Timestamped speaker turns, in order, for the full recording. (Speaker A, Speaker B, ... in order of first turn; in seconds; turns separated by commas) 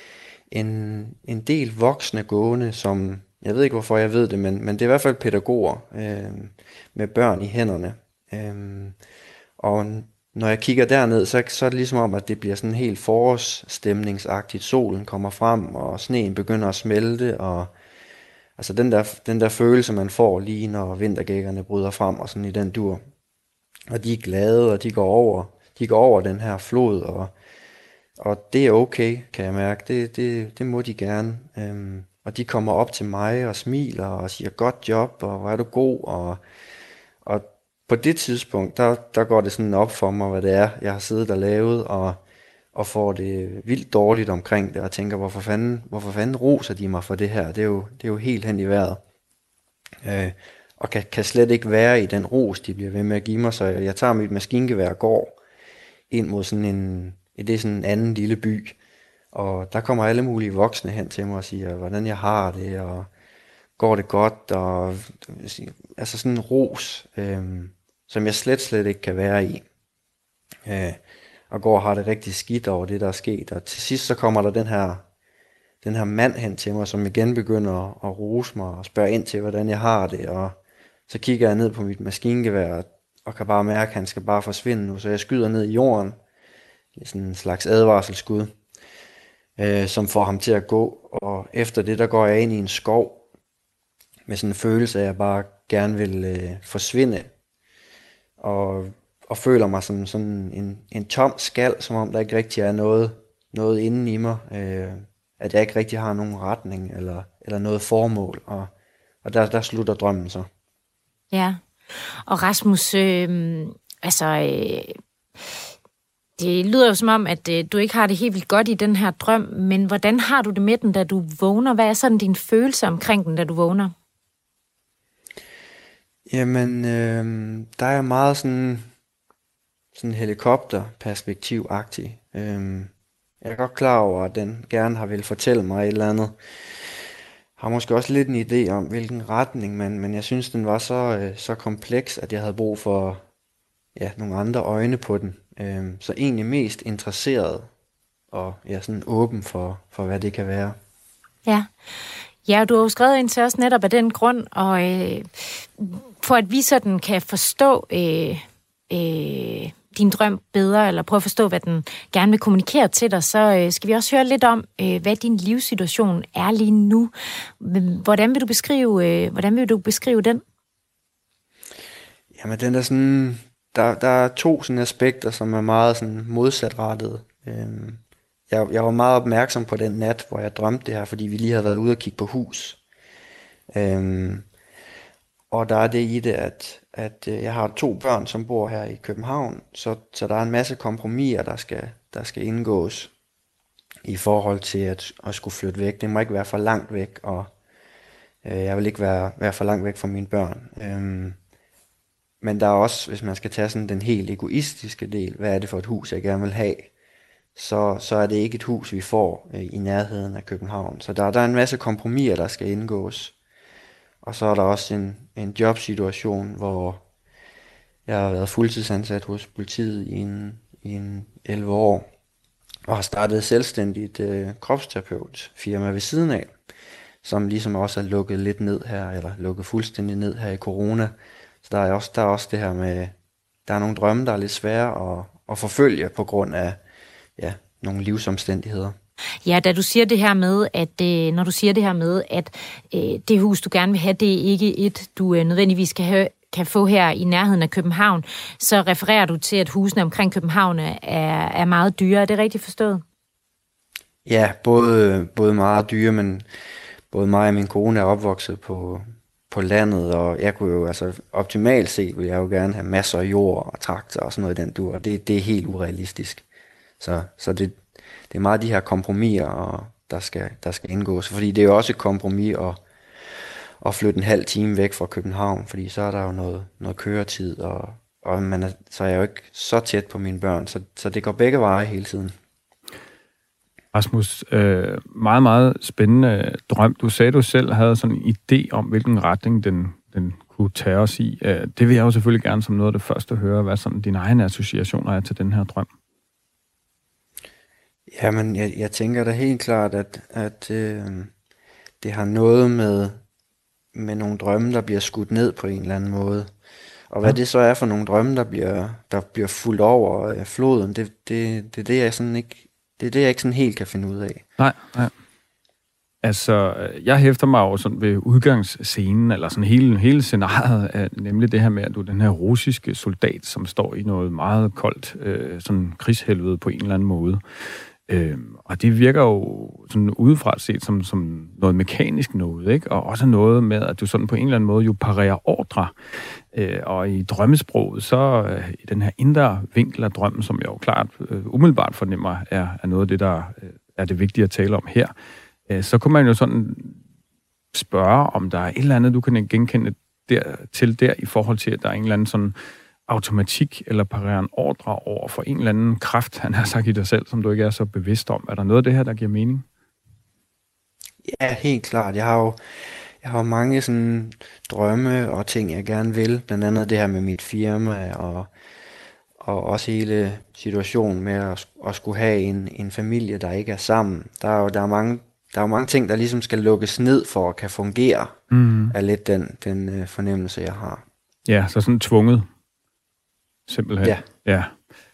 Speaker A: 0.5-9.0, Speaker A: 9.6-17.7, Speaker A: 18.6-23.0, Speaker A: 23.9-27.3, Speaker A: 28.2-36.4, Speaker A: 37.2-42.2, Speaker A: 42.7-49.0, Speaker A: 50.0-55.4, Speaker A: 56.1-58.8, Speaker A: 59.3-63.1, Speaker A: 63.8-69.7, Speaker A: 70.7-75.0, Speaker A: 75.8-80.6, Speaker A: 81.1-86.2, Speaker A: 87.0-88.5, Speaker A: 89.6-93.2, Speaker A: 94.3-97.3, Speaker A: 98.4-108.7, Speaker A: 109.2-110.5, Speaker B: 111.3-111.6, Speaker B: 112.2-115.0, Speaker B: 116.4-123.9, Speaker A: 126.3-128.9, Speaker A: 129.9-136.9, Speaker A: 137.6-143.2, Speaker A: 144.0-147.7, Speaker A: 148.3-150.8, Speaker B: 151.4-151.7, Speaker B: 152.4-170.4, Speaker A: 172.3-182.8, Speaker A: 183.7-184.5, Speaker A: 185.5-193.1, Speaker A: 194.0-197.5, Speaker A: 198.4-201.4, Speaker A: 202.4-206.9, Speaker A: 207.5-213.3, Speaker A: 214.2-217.0, Speaker A: 218.1-222.1, Speaker A: 222.9-226.5, Speaker A: 227.2-233.1, Speaker A: 233.7-236.8, Speaker A: 237.4-239.0, Speaker B: 239.4-253.0, Speaker A: 254.2-256.5, Speaker A: 257.1-266.4, Speaker A: 267.0-272.8, Speaker A: 273.4-282.4, Speaker C: 283.9-295.9, Speaker A: 298.1-301.3, Speaker A: 302.0-303.2, Speaker A: 303.9-306.5, Speaker A: 307.1-314.4, Speaker C: 314.6-315.1, Speaker C: 316.2-335.9, Speaker C: 336.5-345.1, Speaker C: 345.7-347.0, Speaker C: 347.7-352.5, Speaker C: 353.1-359.6, Speaker A: 361.2-362.6, Speaker A: 363.2-368.5, Speaker A: 369.4-378.4, Speaker C: 378.5-379.0, Speaker A: 378.9-381.0, Speaker C: 381.5-382.5, Speaker C: 383.7-384.7